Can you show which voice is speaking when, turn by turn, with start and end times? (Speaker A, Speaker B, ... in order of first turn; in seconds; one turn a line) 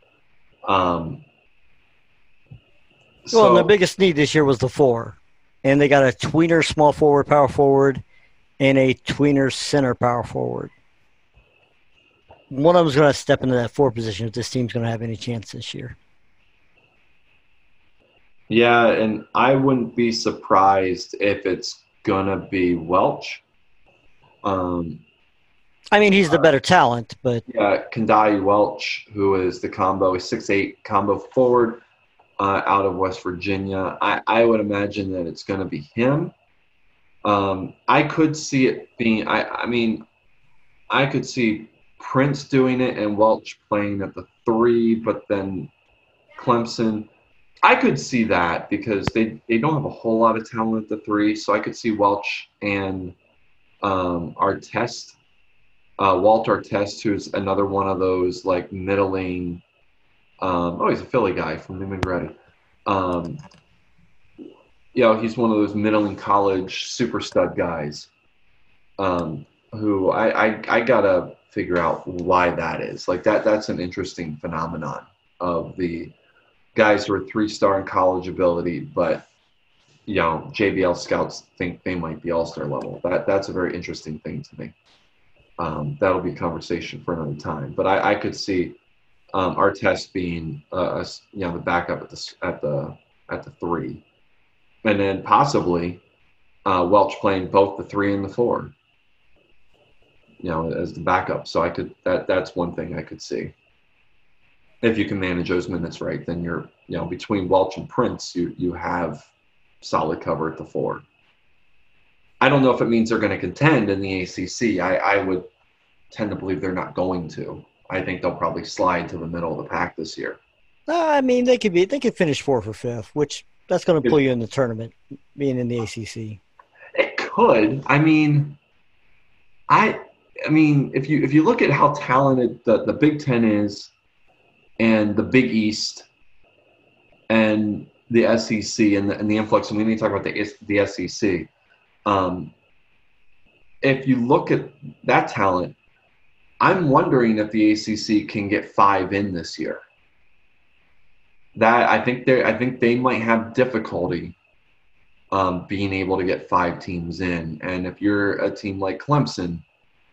Speaker A: 0.7-1.2
Speaker A: 3.3-3.7
Speaker B: 3.3-8.0
Speaker B: 8.6-10.7
Speaker B: 12.5-16.0
Speaker A: 18.5-23.4
Speaker A: 24.4-25.0
Speaker B: 25.9-27.4
Speaker A: 27.5-31.8
Speaker A: 32.4-36.3
Speaker A: 37.2-40.0
Speaker A: 40.9-45.7
Speaker A: 46.4-47.1
Speaker A: 47.6-53.2
Speaker A: 53.8-55.2
Speaker A: 56.0-59.6
Speaker A: 60.4-62.3
Speaker A: 62.9-63.4
Speaker A: 64.9-68.1
Speaker A: 69.0-76.1
Speaker A: 76.8-79.3
Speaker A: 80.1-84.8
Speaker A: 85.6-88.8
Speaker A: 89.3-94.0
Speaker A: 94.8-96.0
Speaker A: 96.7-98.8
Speaker A: 100.4-103.5
Speaker A: 104.8-109.3
Speaker A: 109.8-111.0
Speaker A: 112.4-115.5
Speaker A: 116.1-120.4
Speaker B: 120.9-126.4
Speaker A: 127.0-128.6
Speaker A: 129.7-133.9
Speaker A: 134.8-136.1
Speaker A: 137.3-141.5
Speaker A: 142.1-142.5
Speaker A: 143.8-145.8
Speaker A: 146.6-149.8
Speaker A: 151.6-154.4
Speaker A: 155.3-159.7